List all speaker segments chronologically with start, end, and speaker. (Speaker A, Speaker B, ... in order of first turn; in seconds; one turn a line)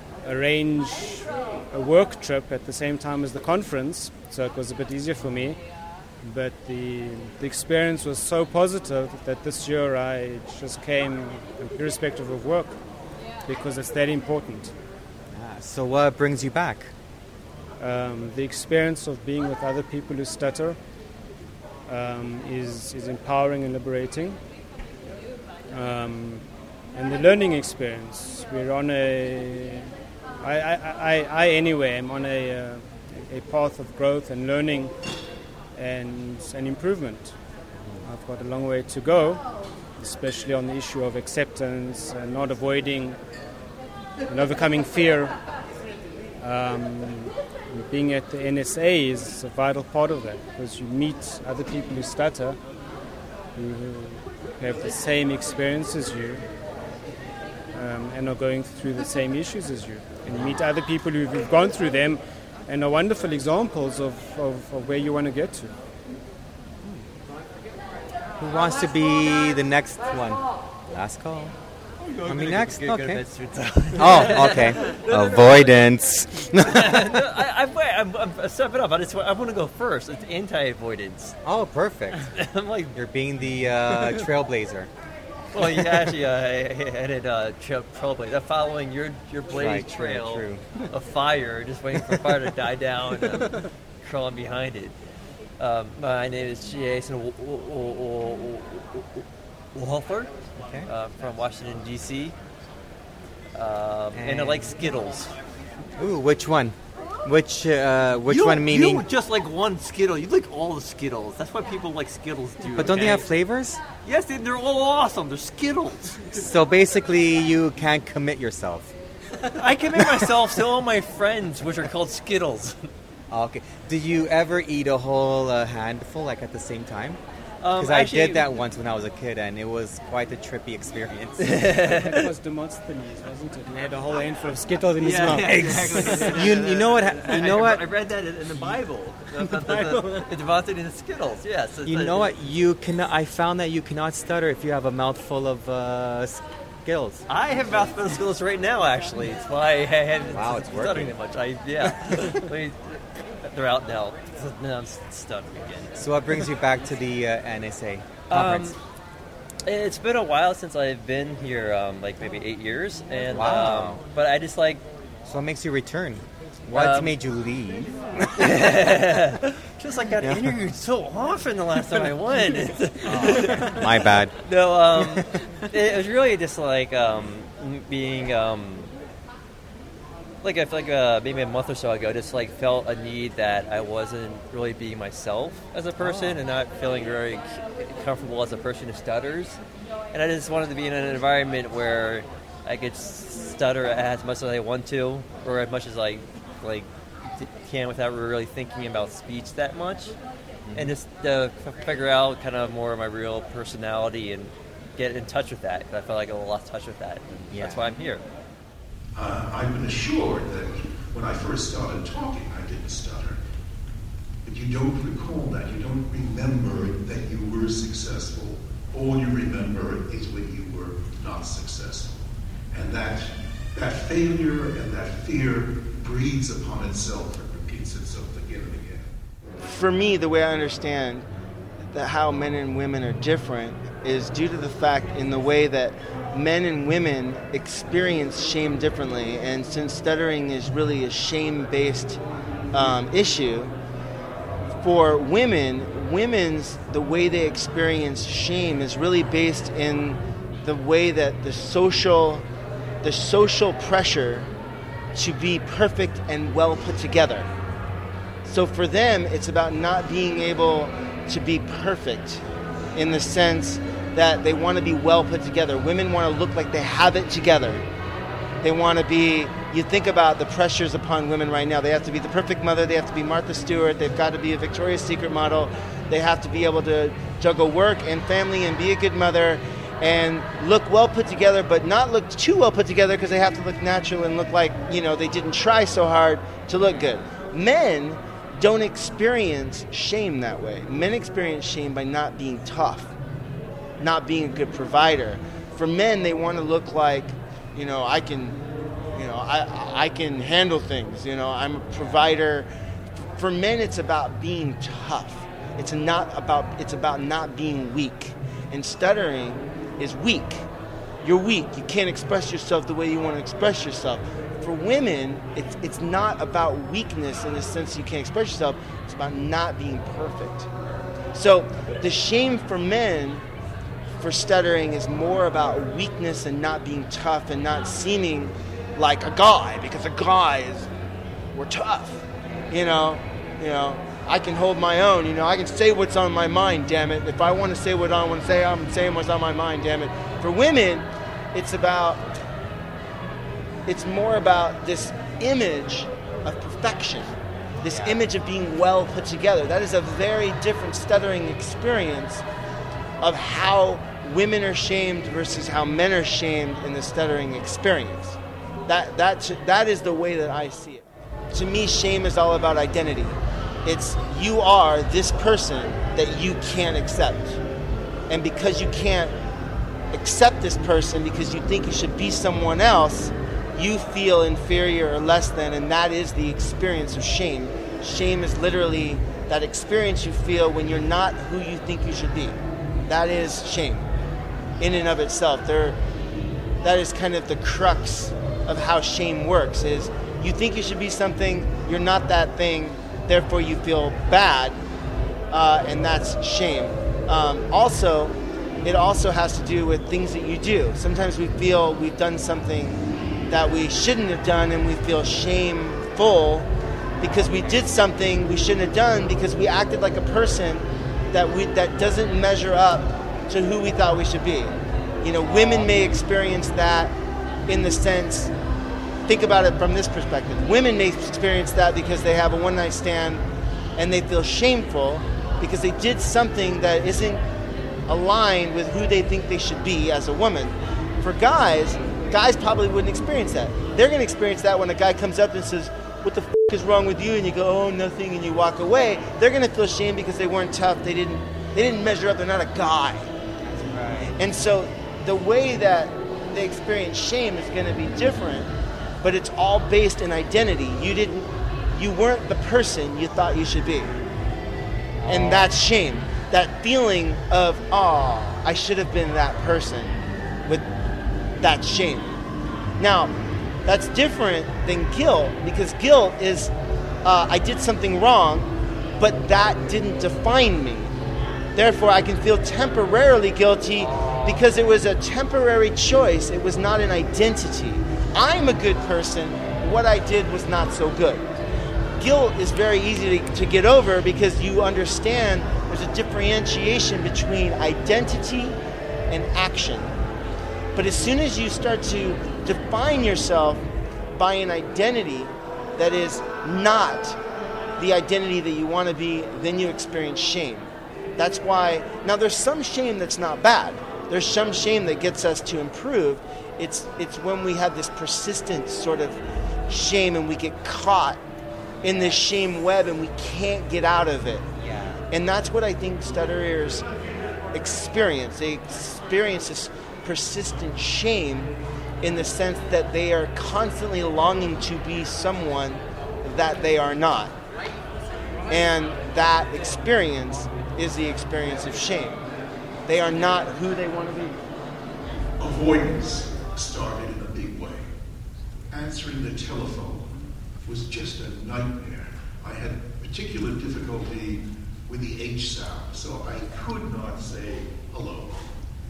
Speaker A: 0.2-5.6
Speaker A: 6.2-12.8
Speaker A: 13.4-14.7
Speaker B: 15.3-16.9
Speaker A: 17.8-20.8
Speaker A: 21.9-24.4
Speaker A: 25.7-34.9
Speaker A: 35.7-37.4
Speaker B: 37.7-38.1
Speaker A: 38.0-39.4
Speaker A: 40.0-43.2
Speaker A: 44.3-45.4
Speaker A: 46.4-52.6
Speaker A: 53.5-56.4
Speaker A: 57.7-65.8
Speaker B: 60.2-60.6
Speaker B: 68.4-71.5
Speaker C: 72.0-81.3
Speaker B: 72.2-73.2
Speaker B: 73.9-77.2
Speaker B: 81.4-82.3
Speaker C: 82.1-83.0
Speaker B: 82.9-84.9
Speaker C: 83.8-84.3
Speaker C: 85.5-94.9
Speaker B: 89.5-90.6
Speaker C: 95.6-99.2
Speaker C: 99.7-102.3
Speaker B: 100.6-100.9
Speaker C: 103.5-105.3
Speaker B: 104.1-104.8
Speaker B: 106.0-109.0
Speaker C: 108.3-113.3
Speaker B: 112.7-113.8
Speaker C: 114.0-116.5
Speaker B: 116.3-118.9
Speaker C: 119.5-122.8
Speaker B: 119.9-120.3
Speaker B: 123.3-127.2
Speaker C: 127.6-128.5
Speaker B: 127.8-131.7
Speaker C: 131.4-132.3
Speaker A: 131.8-136.2
Speaker C: 135.0-142.4
Speaker B: 135.1-137.8
Speaker B: 141.8-147.2
Speaker C: 147.3-156.5
Speaker B: 150.3-151.2
Speaker B: 151.8-152.4
Speaker B: 155.9-158.7
Speaker C: 158.3-158.8
Speaker C: 159.7-164.8
Speaker B: 163.3-164.0
Speaker B: 165.2-168.4
Speaker C: 166.7-167.2
Speaker C: 168.4-178.9
Speaker B: 173.0-174.3
Speaker B: 174.9-175.4
Speaker C: 180.4-189.6
Speaker B: 186.0-186.4
Speaker C: 190.1-200.2
Speaker B: 200.7-200.9
Speaker C: 200.7-208.2
Speaker B: 207.3-207.9
Speaker D: 209.1-213.4
Speaker D: 214.4-229.1
Speaker E: 229.6-231.3
Speaker E: 231.8-242.2
Speaker E: 242.7-243.7
Speaker E: 244.8-252.4
Speaker E: 253.0-254.5
Speaker E: 255.1-257.5
Speaker E: 258.4-262.4
Speaker E: 262.9-267.8
Speaker E: 268.6-293.1
Speaker E: 294.0-298.6
Speaker E: 299.1-310.6
Speaker E: 311.2-320.7
Speaker E: 321.3-323.4
Speaker E: 324.2-330.9
Speaker E: 331.5-342.2
Speaker E: 343.9-352.4
Speaker B: 347.8-348.2
Speaker E: 353.2-367.6
Speaker E: 368.3-369.3
Speaker E: 370.1-384.1
Speaker E: 384.8-386.0
Speaker E: 386.8-394.8
Speaker E: 395.5-417.1
Speaker B: 407.4-407.8
Speaker E: 417.7-418.5
Speaker E: 419.3-423.4
Speaker E: 424.0-427.4
Speaker E: 428.1-443.3
Speaker B: 443.6-444.4
Speaker E: 444.4-454.1
Speaker B: 455.2-455.7
Speaker E: 455.2-460.8
Speaker E: 461.6-462.4
Speaker E: 463.0-463.3
Speaker E: 463.9-466.7
Speaker E: 467.2-471.1
Speaker E: 471.7-481.5
Speaker B: 473.9-474.8
Speaker E: 482.2-488.8
Speaker E: 489.3-490.2
Speaker E: 490.9-497.4
Speaker E: 498.0-511.4
Speaker E: 512.0-514.7
Speaker B: 512.0-512.4
Speaker B: 514.8-515.2
Speaker E: 515.3-517.1
Speaker E: 517.7-527.5
Speaker E: 528.7-532.4
Speaker E: 533.1-534.6
Speaker D: 535.6-538.1
Speaker D: 538.9-540.3
Speaker D: 540.8-548.7